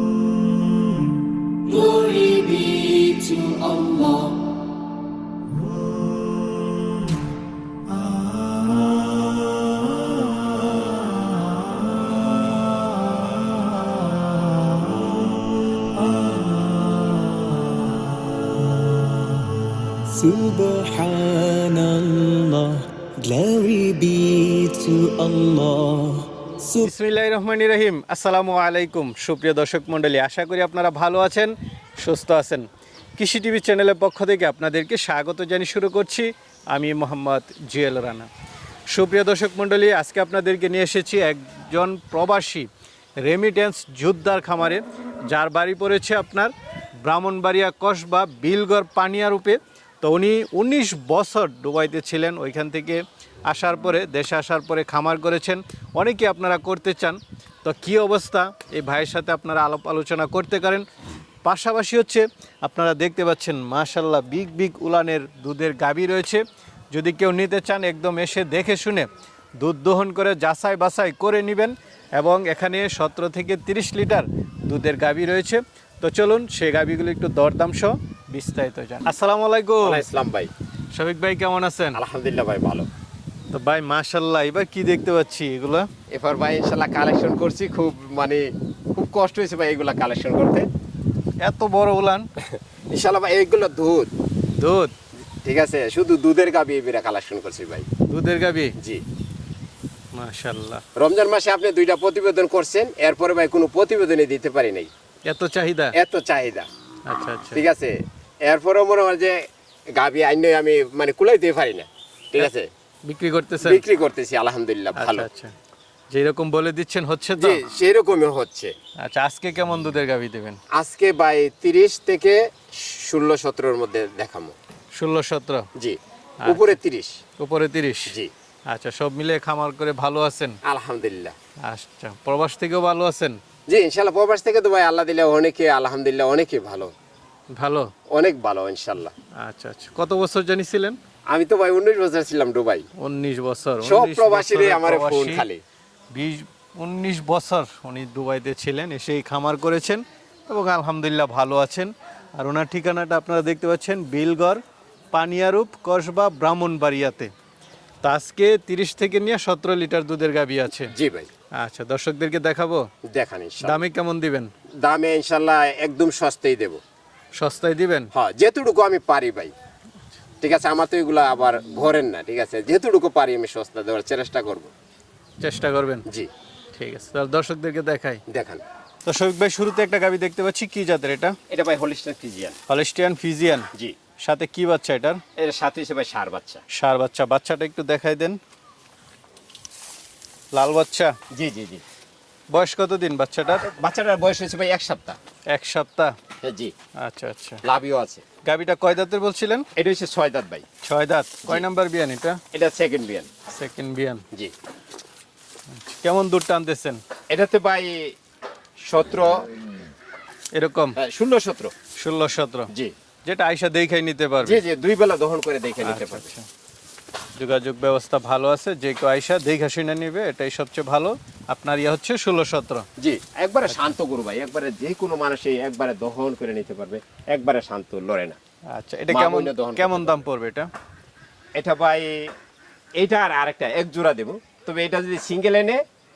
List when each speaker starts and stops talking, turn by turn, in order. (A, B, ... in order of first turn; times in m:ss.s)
0:01.8-0:02.6 A
0:01.8-0:04.3 B
0:16.2-0:16.6 A
0:20.1-0:26.9 A
0:26.8-0:32.6 C
0:33.2-0:38.3 C
0:38.9-0:42.7 C
0:43.2-0:46.5 C
0:47.0-1:00.8 C
1:01.4-1:09.1 C
1:09.6-1:20.0 C
1:19.8-1:20.5 B
1:20.9-1:22.0 C
1:21.9-1:22.9 B
1:23.5-1:25.9 C
1:26.1-1:30.7 B
1:31.4-1:32.3 C
1:32.4-1:34.1 B
1:34.6-1:34.9 C
1:35.4-1:37.9 B
1:38.1-1:38.7 C
1:38.8-1:39.0 B
1:40.1-1:40.8 C
1:41.0-1:44.9 B
1:45.2-1:45.9 C
1:45.9-1:46.7 B
1:47.0-1:47.6 C
1:47.5-1:52.7 B
1:53.0-1:53.8 C
1:53.6-1:55.3 B
1:55.0-1:55.5 C
1:56.1-1:57.6 C
1:57.4-1:58.7 B
1:59.0-2:00.6 C
2:00.7-2:04.5 B
2:04.9-2:05.6 C
2:05.8-2:07.2 B
2:06.4-2:06.8 C
2:07.4-2:08.1 C
2:08.7-2:10.6 C
2:10.6-2:11.3 B
2:11.6-2:13.4 C
2:13.7-2:16.9 B
2:17.5-2:17.9 C
2:18.1-2:19.1 B
2:19.4-2:21.0 C
2:21.3-2:22.9 B
2:23.0-2:25.4 C
2:23.8-2:25.6 B
2:26.1-2:34.6 C
2:35.1-2:37.3 C
2:38.0-2:40.9 C
2:40.9-2:41.3 B
2:41.6-2:42.8 C
2:43.1-2:43.8 B
2:43.6-2:44.5 C
2:44.8-2:46.8 B
2:47.3-2:48.1 C
2:48.1-2:49.5 B
2:50.4-2:54.7 B
2:55.4-2:56.0 C
2:56.7-2:58.2 C
2:58.3-2:58.6 B
2:59.0-3:01.3 C
3:01.5-3:02.6 B
3:02.7-3:03.7 C
3:04.2-3:05.2 C
3:05.4-3:06.6 B
3:06.7-3:08.4 C
3:10.5-3:11.1 C
3:11.3-3:11.8 B
3:12.5-3:13.7 C
3:13.6-3:15.2 B
3:15.5-3:16.1 C
3:16.4-3:16.7 B
3:17.0-3:17.6 C
3:17.6-3:18.2 B
3:18.4-3:19.6 C
3:19.8-3:20.6 B
3:20.8-3:22.4 C
3:22.5-3:23.3 B
3:23.5-3:24.2 C
3:25.7-3:27.0 C
3:27.3-3:28.2 B
3:28.9-3:29.4 B
3:30.5-3:31.0 C
3:31.0-3:31.7 B
3:32.0-3:32.7 C
3:33.2-3:34.6 C
3:34.4-3:36.3 B
3:35.8-3:36.4 C
3:37.4-3:42.8 C
3:43.0-3:48.4 B
3:48.7-3:50.7 C
3:49.1-3:50.2 B
3:51.6-3:52.2 B
3:53.0-3:55.8 B